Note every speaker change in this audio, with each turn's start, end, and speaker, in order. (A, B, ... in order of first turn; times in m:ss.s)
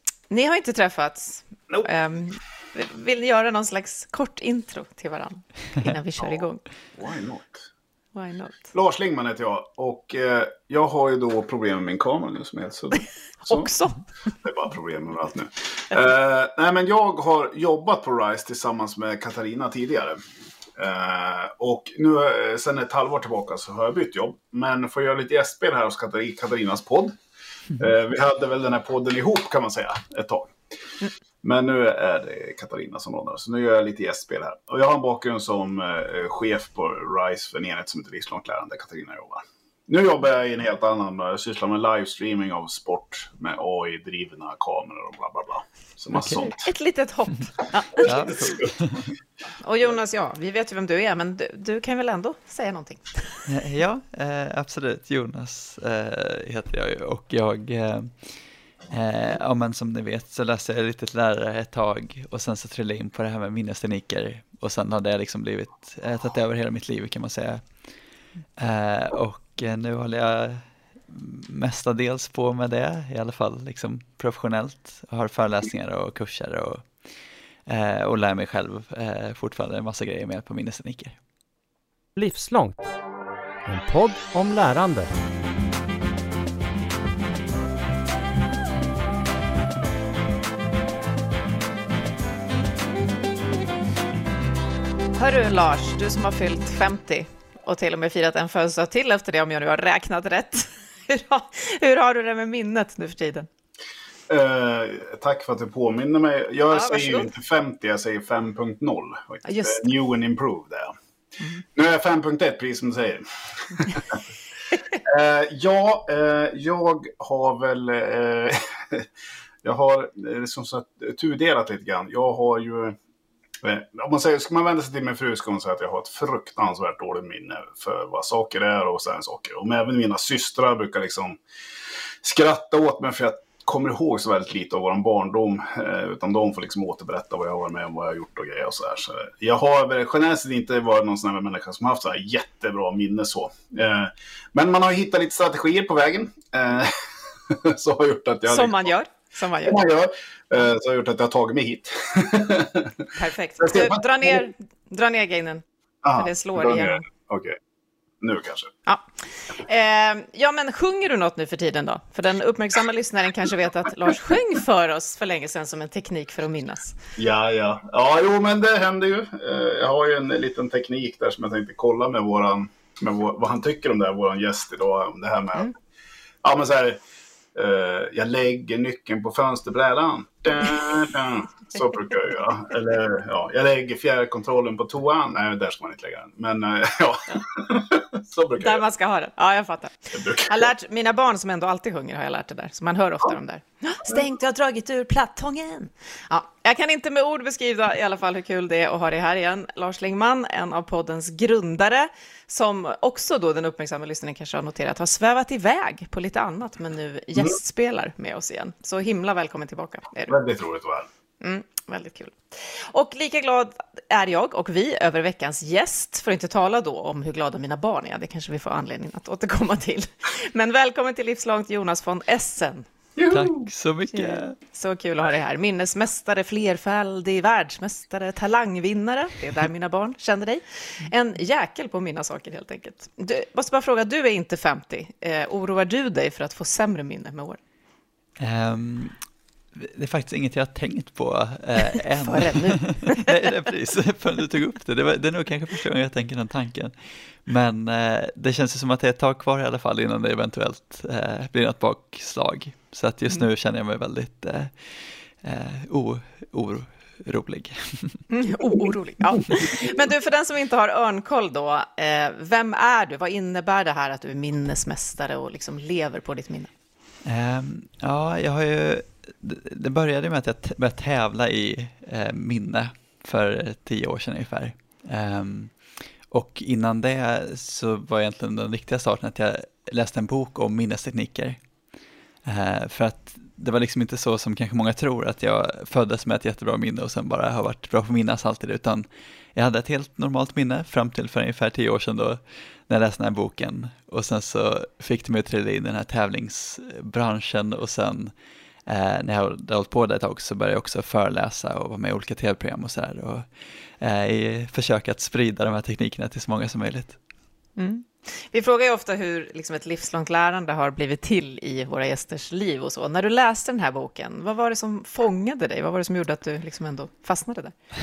0:00.3-0:06.6 A
0:07.0-0:07.6 B
0:08.1-0:08.6 A
0:08.7-0:13.7 B
0:13.4-0:14.0 A
0:14.4-0:20.2 B
0:20.8-0:27.1 B
0:27.8-0:30.5 B
0:31.4-0:46.7 B
0:46.2-0:46.4 C
0:46.6-0:48.4 A
0:48.0-0:48.7 B
0:48.0-0:49.1 C
0:49.6-0:53.4 A
0:53.5-0:58.4 C
0:58.9-1:07.8 C
1:08.6-1:17.0 C
1:17.7-1:21.2 C
1:22.1-1:22.8 D
1:23.6-1:25.1 D
1:35.2-1:43.5 A
1:44.3-1:50.9 B
1:46.7-1:47.3 A
1:49.4-1:49.8 A
1:51.8-1:54.2 B
1:55.0-1:59.1 B
1:59.6-2:03.0 B
2:03.6-2:11.4 B
2:12.2-2:26.9 B
2:27.5-2:28.9 B
2:28.5-2:29.8 A
2:29.6-2:33.0 B
2:33.1-2:35.6 A
2:33.6-2:34.4 B
2:36.0-2:37.6 B
2:36.2-2:37.0 A
2:38.2-2:38.7 B
2:38.9-2:46.9 A
2:47.2-2:55.7 B
2:56.4-2:57.0 B
2:57.5-3:08.8 B
3:08.6-3:30.4 A
3:10.1-3:10.7 B
3:30.3-3:31.1 B
3:31.4-3:42.8 A
3:43.2-3:43.7 B
3:43.3-3:44.5 C
3:44.1-3:57.6 A
3:58.4-3:59.2 C
3:59.8-4:14.8 C
4:02.2-4:03.4 A
4:15.4-4:18.2 C
4:18.3-4:26.7 A
4:27.2-4:35.8 C
4:36.3-4:41.6 C
4:42.4-4:58.3 C
4:58.9-5:07.2 C
5:07.8-5:17.7 A